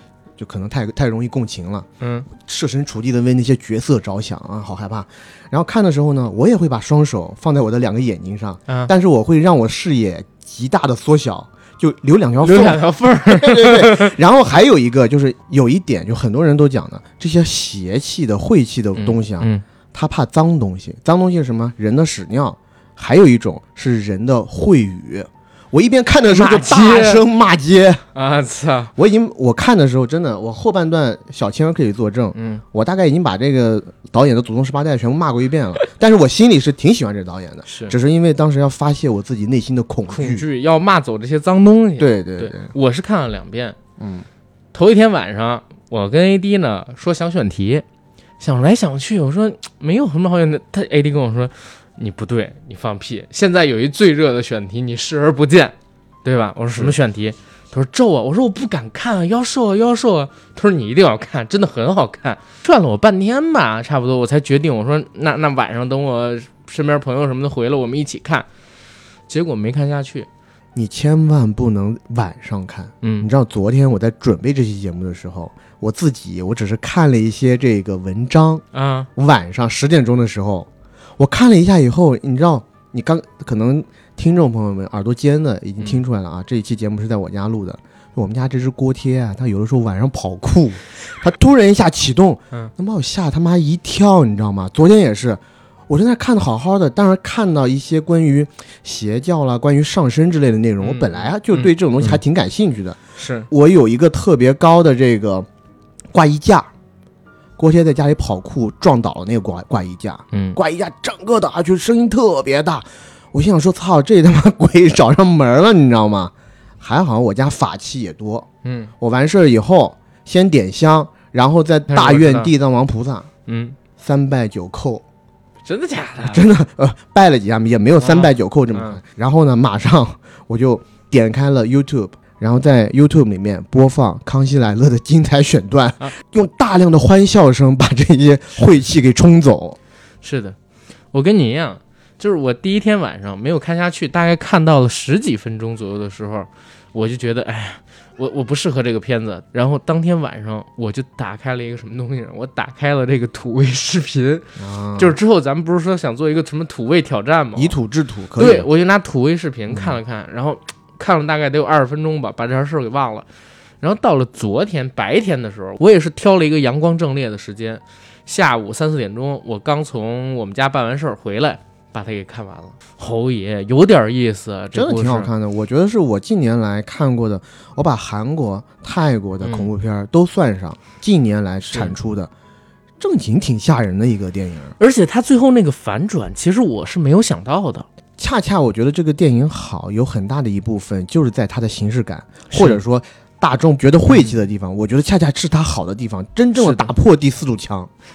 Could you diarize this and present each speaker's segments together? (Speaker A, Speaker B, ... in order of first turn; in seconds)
Speaker A: 0.4-28.0, 28.9-40.5, 42.0-42.7, 44.0-44.2, 70.7-78.6, 79.2-105.5, 106.1-106.7, 107.6-118.5, 119.0-123.3, 124.0-125.0, 126.2-139.8, 154.6-155.2, 157.6-158.7, 159.7-159.9, 174.7-182.3, 183.0-184.7, 188.2-197.9
Speaker B: 2.0-2.3, 12.4-14.1, 18.9-19.6, 26.2-27.2, 28.1-28.9, 32.3-32.6, 37.6-37.9, 40.1-43.8, 44.7-47.8, 48.4-68.5, 69.3-70.3, 73.0-73.3, 78.7-79.1, 100.8-102.2, 103.2-103.5, 110.3-110.6, 118.6-118.9, 121.9-122.5, 123.5-123.8, 125.6-126.5, 128.0-129.0, 140.2-140.6, 141.1-157.8, 158.4-163.2, 163.8-175.3, 179.4-179.7, 184.8-187.8, 192.5-192.8, 194.1-194.4, 196.5-196.9